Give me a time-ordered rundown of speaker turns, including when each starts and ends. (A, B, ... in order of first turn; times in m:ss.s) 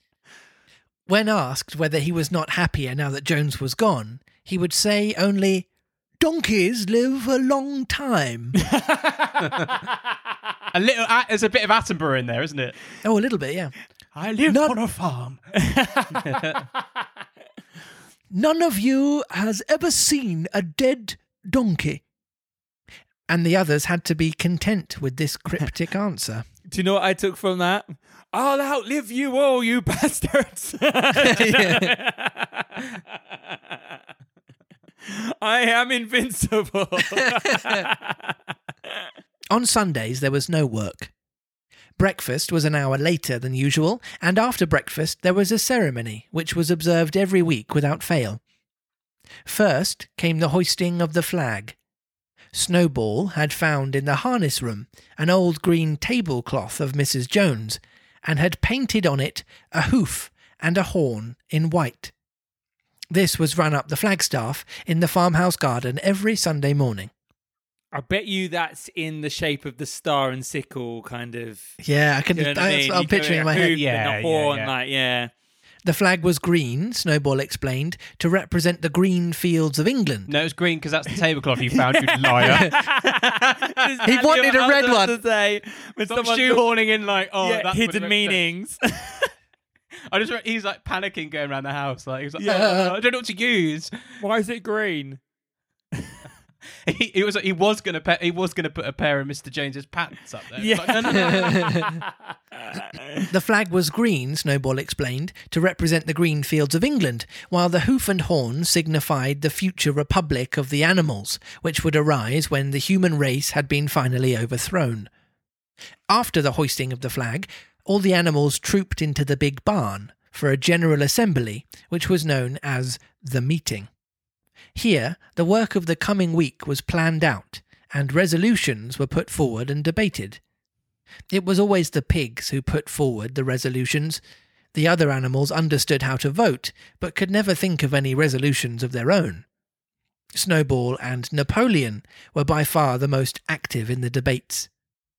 0:01.1-0:05.7 A
0:06.2-0:08.6 A
0:08.7-0:09.6 B
0:09.4-0:09.7 C
0:10.7-0:12.8 C
0:13.0-0:13.7 A
0:14.2-0:15.4 C
0:14.4-0:14.8 A
0:15.6-0:16.4 B
0:16.2-0:16.6 C
0:18.3-0:22.0 A
0:23.3-0:26.4 A
0:26.7-0:32.8 B
0:31.2-0:31.9 A
0:35.0-0:38.3 B
0:39.5-0:41.1 A
0:42.0-0:48.4 A
0:49.4-0:51.8 A
0:52.5-1:02.1 A
1:03.1-1:07.1 A
1:07.9-1:11.8 B
1:11.8-1:13.8 A
1:12.3-1:15.3 B
1:13.5-1:14.7 C
1:15.8-1:20.3 A
1:20.3-1:23.2 C
1:21.9-1:26.6 B
1:24.0-1:25.2 A
1:26.1-1:28.4 C
1:27.4-1:29.3 B
1:30.1-1:34.2 C
1:32.5-1:32.9 A
1:34.2-1:35.2 B
1:36.9-1:41.9 C
1:40.6-1:42.0 B
1:41.3-1:41.9 A
1:42.6-1:43.2 B
1:43.3-1:55.1 A
1:56.1-2:03.9 A
2:04.7-2:10.4 A
2:11.3-2:14.2 A
2:14.7-2:19.4 A
2:20.3-2:24.7 A